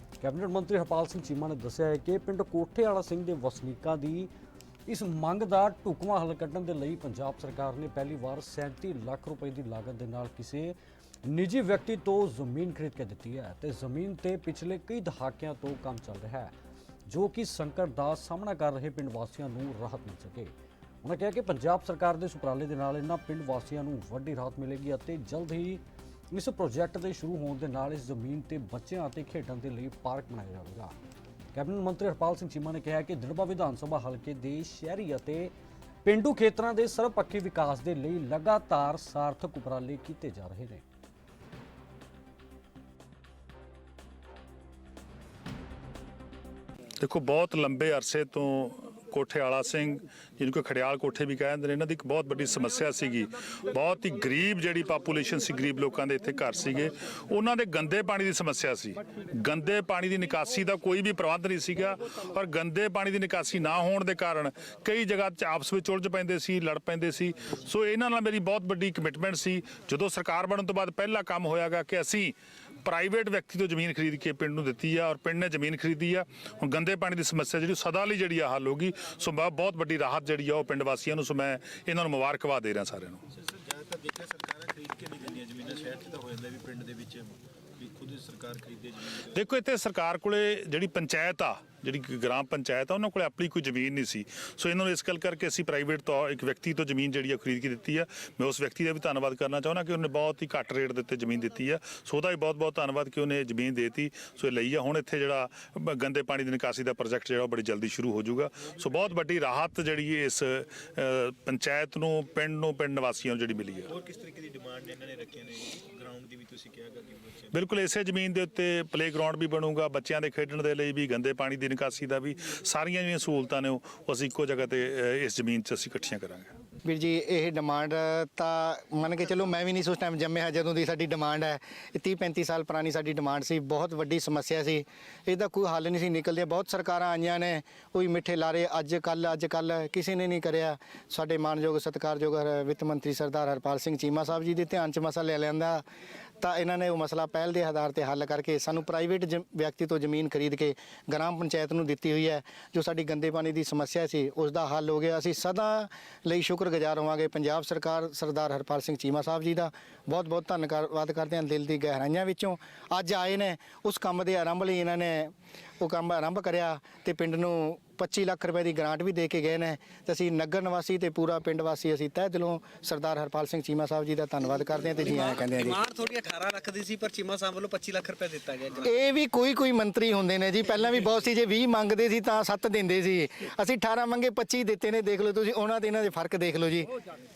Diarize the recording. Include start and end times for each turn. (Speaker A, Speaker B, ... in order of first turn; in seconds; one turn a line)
Speaker A: 0.2-4.3
Speaker A: 4.8-16.5
Speaker A: 17.1-30.9
Speaker A: 31.5-35.5
Speaker A: 36.0-40.8
Speaker B: 47.0-83.2
Speaker C: 83.3-89.4
Speaker B: 89.3-113.9
Speaker C: 113.9-117.6
Speaker B: 117.5-126.5
Speaker D: 126.8-145.8
Speaker D: 146.4-175.8
Speaker E: 175.1-178.8
Speaker D: 178.8-186.9